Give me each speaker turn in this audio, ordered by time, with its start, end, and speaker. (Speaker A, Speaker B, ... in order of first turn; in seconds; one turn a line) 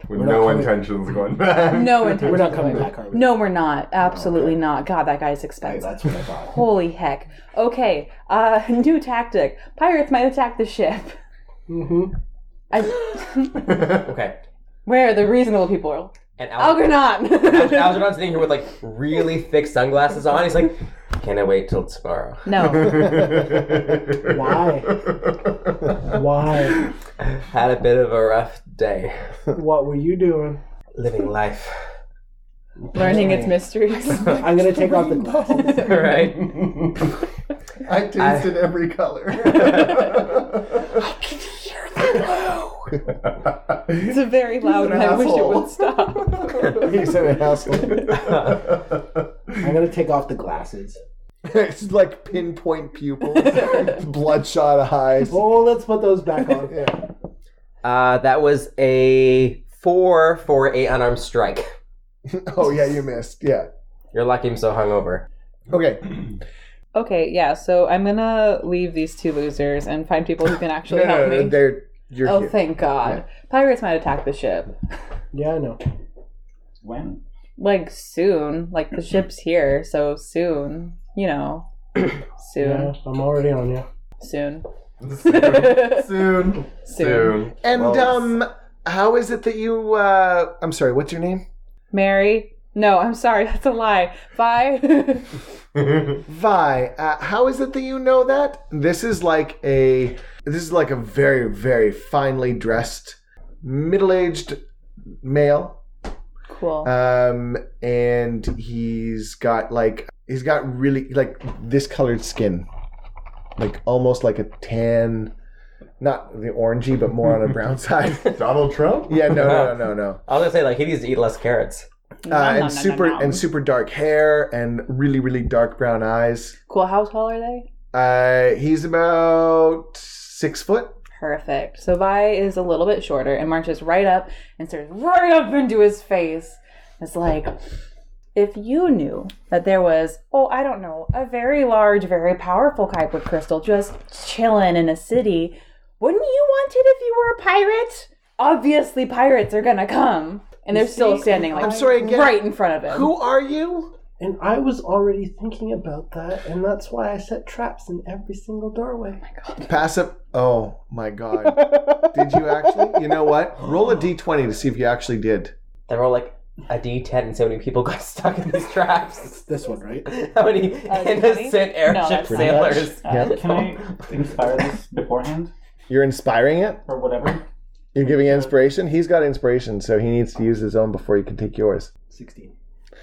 Speaker A: 0.1-2.6
Speaker B: 0.1-0.9
Speaker C: 1.6-11.1
Speaker B: 2.1-3.5
Speaker B: 5.6-6.8
Speaker B: 11.7-12.1
Speaker C: 12.7-13.8
Speaker D: 14.0-14.4
Speaker C: 14.8-18.1
Speaker D: 16.4-22.5
Speaker C: 22.5-23.3
Speaker A: 23.0-24.3
Speaker B: 23.4-25.0
Speaker A: 25.0-25.4
Speaker B: 26.0-26.9
Speaker D: 27.3-29.4
Speaker B: 29.5-30.6
Speaker D: 30.9-31.8
Speaker B: 32.8-36.4
Speaker C: 32.9-34.9
Speaker C: 35.5-35.9
Speaker D: 35.7-36.6
Speaker A: 37.8-41.0
Speaker D: 38.2-38.7
Speaker D: 39.5-40.0
Speaker C: 41.3-42.8
Speaker A: 43.5-43.9
Speaker C: 43.9-46.9
Speaker E: 44.8-45.7
Speaker A: 46.4-46.8
Speaker E: 46.7-48.2
Speaker A: 47.9-49.6
Speaker B: 49.6-51.0
Speaker E: 51.5-55.4
Speaker B: 55.3-56.9
Speaker E: 56.7-57.0
Speaker D: 57.8-61.7
Speaker E: 62.3-63.7
Speaker D: 64.1-65.3
Speaker E: 65.7-66.3
Speaker C: 66.9-71.7
Speaker E: 70.9-73.2
Speaker C: 72.2-74.7
Speaker B: 75.3-75.8
Speaker F: 76.8-77.2
Speaker C: 77.6-81.7
Speaker C: 82.4-82.9
Speaker B: 82.6-83.9
Speaker C: 84.2-84.7
Speaker A: 85.0-88.2
Speaker C: 85.2-87.4
Speaker E: 87.6-91.5
Speaker C: 91.9-95.3
Speaker E: 96.2-104.6
Speaker E: 105.2-105.8
Speaker C: 106.5-106.9
Speaker E: 106.8-112.7
Speaker E: 113.6-115.3
Speaker E: 116.0-118.4
Speaker A: 118.2-119.3
Speaker E: 119.1-120.2
Speaker D: 119.3-121.9
Speaker C: 122.2-123.5
Speaker E: 122.3-126.6
Speaker C: 126.7-127.7
Speaker E: 127.9-131.0
Speaker C: 131.2-137.6
Speaker C: 138.3-153.1
Speaker B: 150.7-152.1
Speaker E: 151.5-153.9
Speaker B: 154.2-159.2
Speaker C: 159.3-159.7
Speaker E: 159.7-165.5
Speaker D: 165.9-169.5
Speaker B: 169.5-170.1
Speaker D: 170.1-173.6
Speaker C: 170.8-172.9
Speaker E: 172.3-173.6
Speaker F: 173.1-175.5
Speaker E: 175.9-176.8
Speaker F: 176.9-177.4
Speaker E: 177.9-181.9
Speaker F: 178.0-178.5
Speaker B: 182.1-182.5